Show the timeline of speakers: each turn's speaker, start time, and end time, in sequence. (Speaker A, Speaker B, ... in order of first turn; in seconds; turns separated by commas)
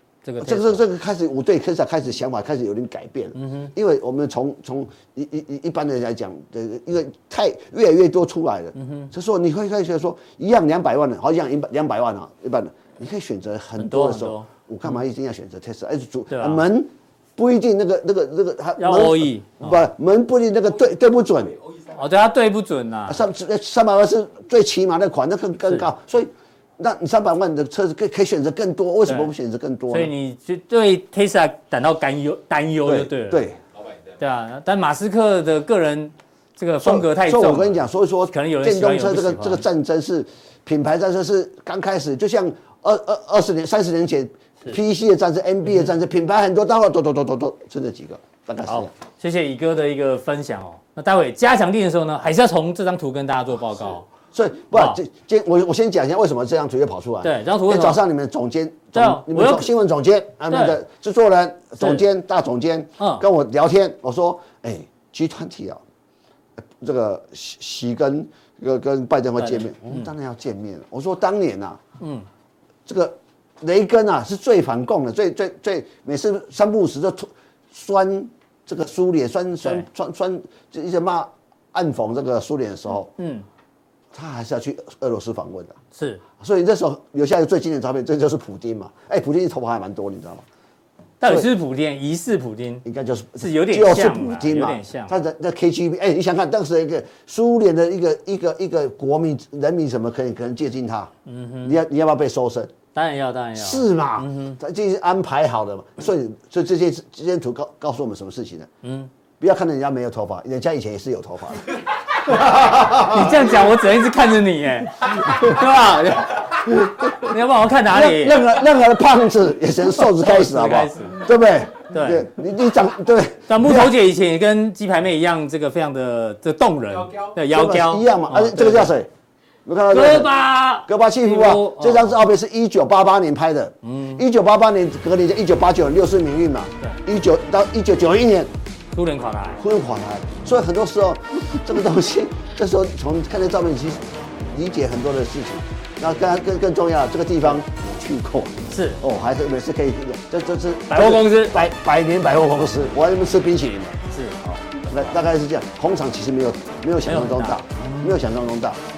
Speaker A: 0.2-0.8, Speaker B: 0.4-21.6, Speaker A: 3.4-3.7, Speaker A: 8.8-9.1, Speaker A: 13.8-14.5, Speaker A: 16.3-16.6, Speaker A: 18.8-19.9, Speaker A: 21.9-23.2, Speaker B: 23.1-30.1, Speaker A: 29.1-29.3, Speaker A: 29.9-33.5, Speaker B: 32.9-33.6, Speaker A: 34.2-39.6, Speaker B: 36.8-48.9, Speaker A: 48.7-54.1, Speaker B: 54.3-65.8, Speaker A: 54.7-55.0, Speaker A: 57.2-58.0, Speaker A: 58.9-59.7, Speaker A: 60.5-60.8, Speaker A: 63.0-63.2, Speaker B: 66.8-71.8, Speaker A: 69.4-70.1, Speaker A: 72.0-72.3, Speaker B: 72.9-83.1, Speaker A: 83.2-83.5, Speaker B: 84.1-85.8, Speaker A: 85.9-86.2, Speaker B: 86.4-90.5, Speaker A: 91.2-92.8, Speaker B: 91.2-91.5, Speaker B: 92.8-101.1, Speaker A: 93.4-95.1, Speaker A: 101.3-101.8, Speaker B: 101.6-102.7, Speaker A: 103.0-104.6, Speaker B: 103.6-108.7, Speaker A: 108.8-109.1, Speaker B: 109.4-113.4, Speaker A: 112.5-118.5, Speaker B: 117.8-124.0, Speaker A: 120.2-121.2, Speaker A: 121.9-122.3, Speaker A: 123.5-128.9, Speaker B: 127.5-129.1, Speaker B: 129.7-130.3, Speaker A: 129.9-132.2, Speaker B: 130.9-138.5, Speaker A: 133.8-134.2, Speaker A: 138.9-139.6, Speaker B: 139.6-158.8, Speaker A: 148.7-149.0, Speaker A: 150.9-151.6, Speaker A: 154.1-154.4, Speaker A: 157.1-158.2